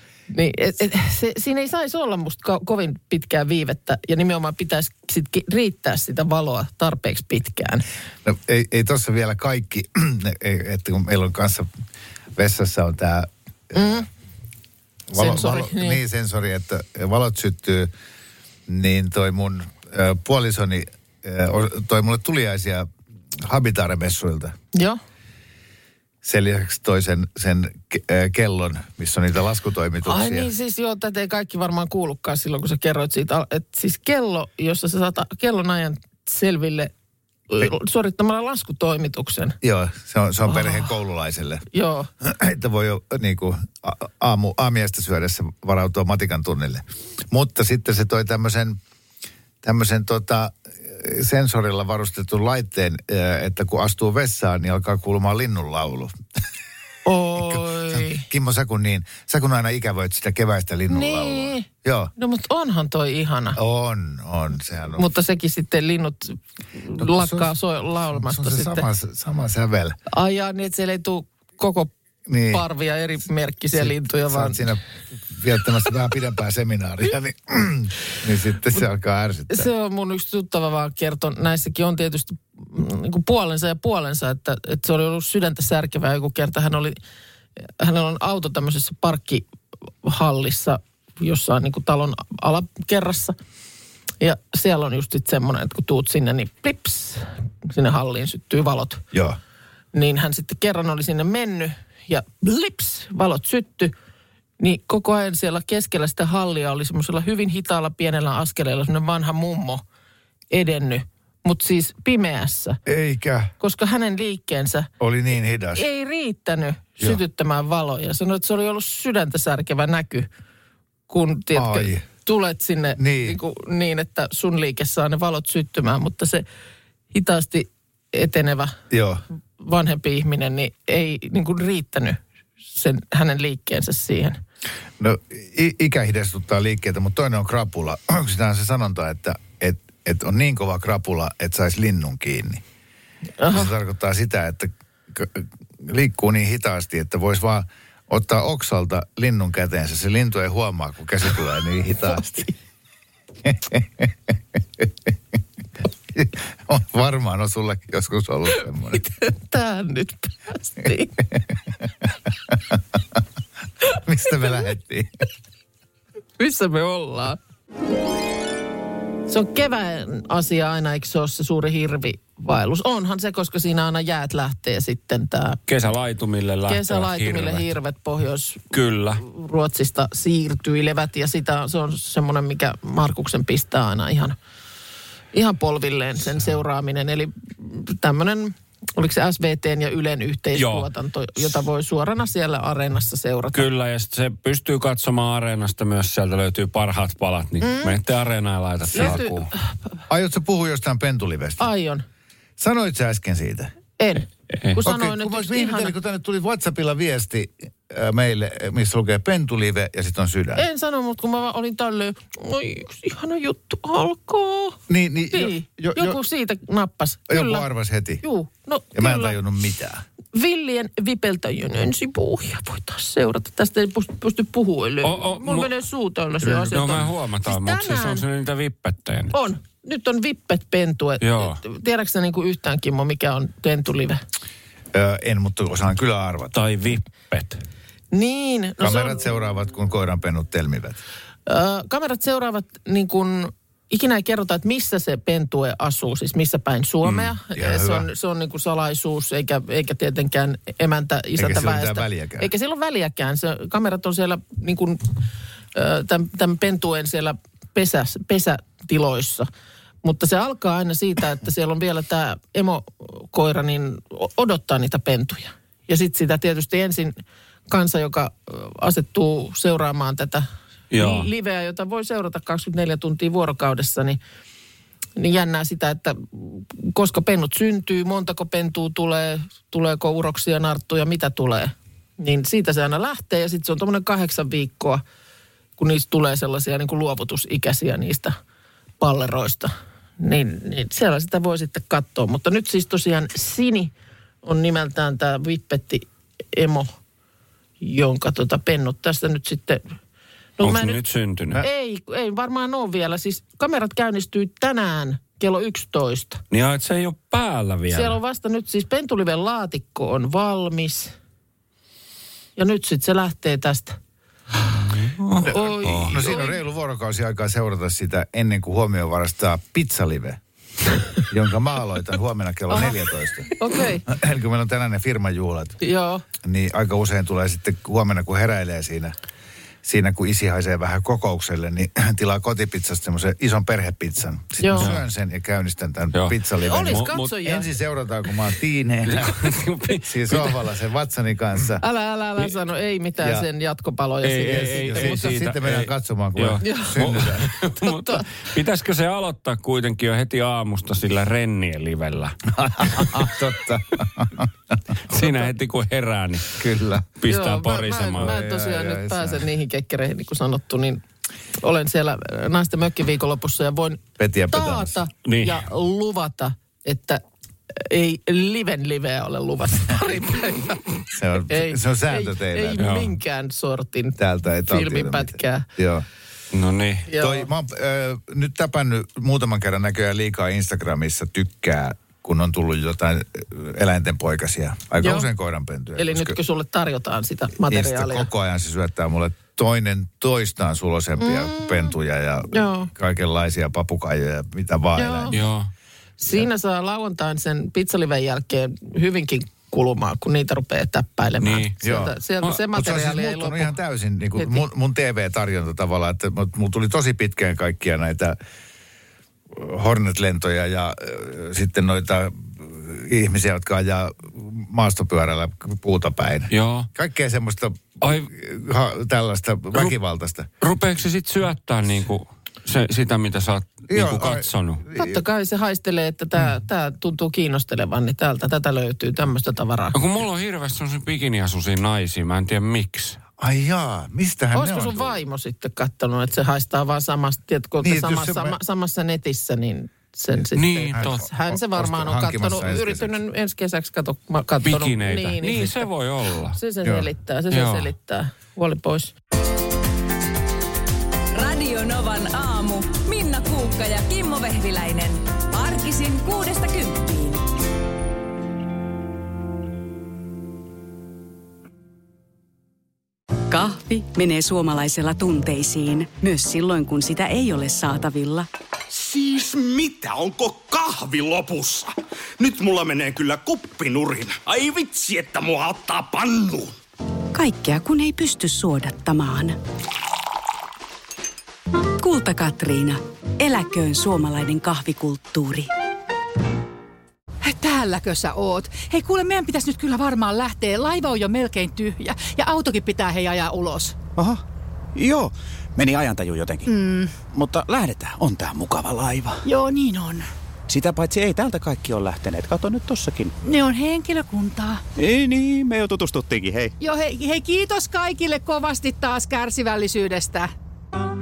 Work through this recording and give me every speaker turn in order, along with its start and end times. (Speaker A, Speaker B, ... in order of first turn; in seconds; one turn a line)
Speaker A: 0.3-7.9
Speaker B: 8.2-11.7
Speaker B: 12.3-14.1
Speaker A: 13.7-14.1
Speaker B: 15.1-17.9
Speaker A: 15.2-16.0
Speaker B: 18.7-22.9
Speaker B: 23.4-24.6
Speaker B: 26.2-30.5
Speaker A: 30.0-36.9
Speaker A: 37.5-39.6
Speaker B: 39.6-41.6
Speaker A: 40.5-40.9
Speaker A: 41.7-42.1
Speaker B: 42.2-48.8
Speaker B: 49.6-56.2
Speaker A: 57.1-58.3
Speaker B: 57.4-62.1
Speaker A: 60.9-63.6
Speaker B: 63.5-65.0
Speaker A: 65.0-68.9
Speaker B: 67.0-67.5
Speaker B: 68.1-70.0
Speaker A: 70.1-71.9
Speaker B: 72.3-72.7
Speaker A: 72.5-74.7
Speaker B: 73.7-79.7
Speaker A: 79.5-87.0
Speaker A: 87.8-89.4
Speaker A: 90.0-93.4
Speaker A: 94.2-99.0
Speaker B: 99.1-99.4
Speaker A: 99.9-103.9
Speaker A: 104.6-109.8
Speaker A: 110.5-112.8
Speaker B: 112.9-113.5
Speaker A: 113.6-114.9
Speaker B: 115.0-115.8
Speaker A: 115.7-120.3
Speaker A: 121.1-126.4
Speaker B: 121.5-122.0
Speaker B: 123.0-123.4
Speaker A: 127.1-128.8
Speaker B: 128.9-129.2
Speaker A: 129.6-134.4
Speaker B: 135.0-142.6
Speaker A: 143.4-143.7
Speaker B: 143.5-152.5
Speaker A: 152.2-152.5
Speaker B: 153.4-155.1
Speaker B: 156.1-159.0
Speaker A: 158.6-161.2
Speaker B: 162.0-163.2
Speaker B: 164.0-165.1
Speaker A: 166.4-167.4
Speaker A: 169.3-175.6
Speaker C: 175.7-177.7
Speaker A: 176.7-184.4
Speaker C: 178.7-179.2
Speaker A: 185.3-193.7
Speaker C: 190.5-190.9
Speaker C: 193.5-199.5
Speaker A: 197.6-198.0
Speaker A: 198.9-199.6
Speaker B: 200.1-201.7
Speaker A: 201.6-202.0
Speaker B: 202.6-203.7
Speaker A: 204.0-205.9
Speaker B: 204.8-210.6
Speaker A: 210.6-214.8
Speaker B: 214.9-216.2
Speaker A: 215.3-217.7
Speaker B: 217.3-218.2
Speaker A: 218.2-219.4
Speaker B: 218.9-220.0
Speaker A: 220.3-228.2
Speaker C: 225.0-225.7
Speaker C: 226.4-229.3
Speaker A: 229.3-234.2
Speaker C: 231.2-231.6
Speaker B: 234.9-236.6
Speaker C: 236.5-237.6
Speaker A: 238.1-239.2
Speaker B: 238.8-241.0
Speaker A: 241.5-255.2
Speaker C: 247.1-247.3
Speaker B: 247.5-248.1
Speaker B: 251.4-252.5
Speaker A: 255.7-259.5
Speaker A: 260.0-267.2
Speaker A: 267.7-274.2
Speaker C: 270.9-271.3
Speaker A: 275.2-285.0
Speaker A: 285.8-288.4
Speaker A: 289.0-293.9
Speaker A: 294.4-296.9
Speaker A: 297.8-299.9
Speaker A: 300.6-301.0
Speaker C: 300.6-301.6
Speaker A: 301.6-306.4
Speaker C: 306.5-308.2
Speaker A: 307.9-311.1
Speaker A: 312.6-314.0
Speaker C: 314.9-316.2
Speaker B: 315.4-320.4
Speaker A: 315.4-316.6
Speaker B: 321.3-323.5
Speaker A: 322.7-323.0
Speaker A: 323.6-324.1
Speaker B: 324.1-325.8
Speaker A: 325.8-326.2
Speaker B: 326.4-329.1
Speaker B: 329.8-341.8
Speaker A: 334.6-334.9
Speaker C: 334.8-335.0
Speaker C: 336.1-337.3
Speaker A: 336.7-337.7
Speaker C: 339.1-340.6
Speaker A: 341.8-345.3
Speaker B: 343.2-343.5
Speaker C: 344.2-353.3
Speaker B: 344.4-347.5
Speaker A: 346.6-347.0
Speaker A: 347.8-348.2
Speaker B: 352.5-354.7
Speaker C: 355.1-356.6
Speaker A: 355.1-355.4
Speaker B: 356.6-357.1
Speaker C: 357.2-358.3
Speaker A: 357.3-361.0
Speaker B: 358.2-359.5
Speaker A: 361.6-367.2
Speaker B: 364.2-365.0
Speaker C: 365.2-365.6
Speaker A: 367.7-375.7
Speaker B: 371.1-372.8
Speaker C: 372.8-373.1
Speaker B: 374.2-376.1
Speaker C: 376.5-377.1
Speaker A: 377.1-377.5
Speaker B: 377.2-386.4
Speaker A: 385.0-385.3
Speaker A: 386.0-388.3
Speaker B: 387.7-395.4
Speaker A: 391.2-391.9
Speaker A: 392.5-392.9
Speaker A: 395.0-395.4
Speaker C: 395.3-395.7
Speaker A: 396.2-403.7
Speaker C: 401.4-401.8
Speaker B: 401.8-408.4
Speaker A: 404.4-404.6
Speaker B: 409.5-420.5
Speaker C: 416.5-416.9
Speaker C: 418.0-418.3
Speaker C: 420.6-424.8
Speaker B: 423.9-425.2
Speaker A: 424.9-430.0
Speaker C: 429.9-433.2
Speaker B: 433.4-435.2
Speaker A: 434.5-445.9
Speaker B: 437.8-438.6
Speaker C: 440.6-441.2
Speaker B: 440.9-443.2
Speaker C: 444.6-446.6
Speaker A: 446.5-449.1
Speaker B: 446.8-447.1
Speaker C: 447.5-447.9
Speaker D: 451.3-457.4
Speaker E: 463.5-468.5
Speaker F: 468.9-476.8
Speaker E: 477.3-479.6
Speaker E: 482.0-485.7
Speaker G: 487.4-494.0
Speaker H: 494.2-494.4
Speaker H: 494.9-496.7
Speaker G: 496.7-497.1
Speaker H: 497.3-499.5
Speaker G: 499.4-500.3
Speaker H: 500.7-503.4
Speaker G: 503.4-504.8
Speaker H: 505.0-506.8
Speaker G: 506.8-510.5